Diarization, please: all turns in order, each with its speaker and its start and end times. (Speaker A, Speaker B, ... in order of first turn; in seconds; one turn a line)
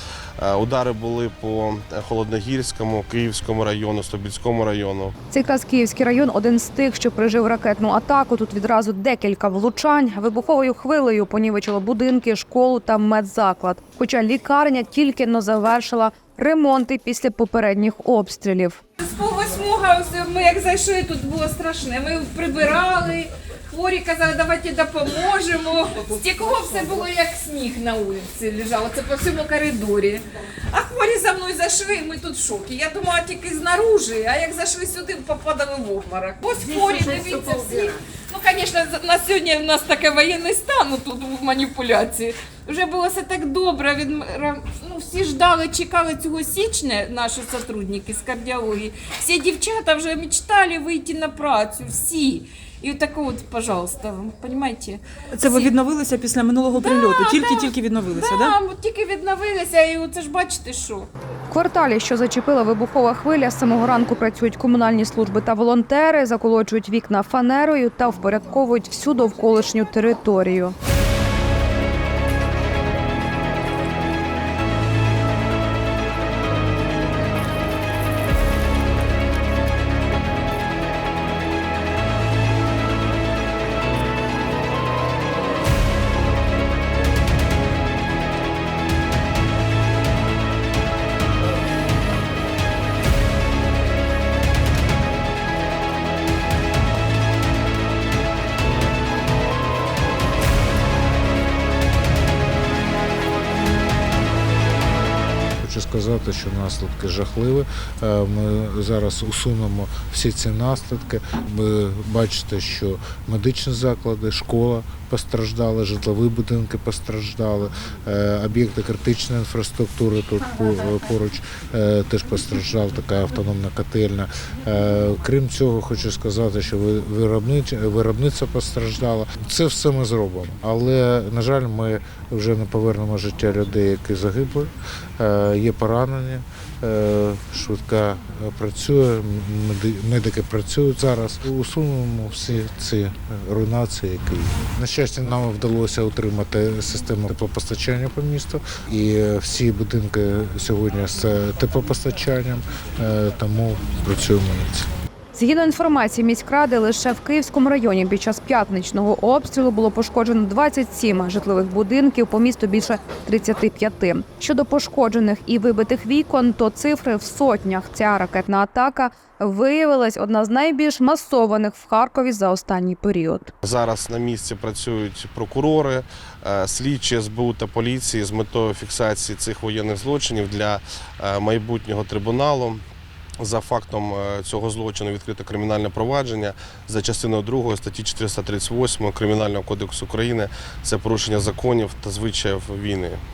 Speaker A: 0.4-5.2
Speaker B: 5.3-18.8
Speaker C: 19.0-55.7
Speaker D: 55.3-58.6
Speaker C: 56.7-61.1
Speaker B: 61.5-70.8
Speaker E: 105.6-154.9
Speaker B: 155.3-173.5
Speaker A: 173.6-182.8
Speaker A: 183.4-193.2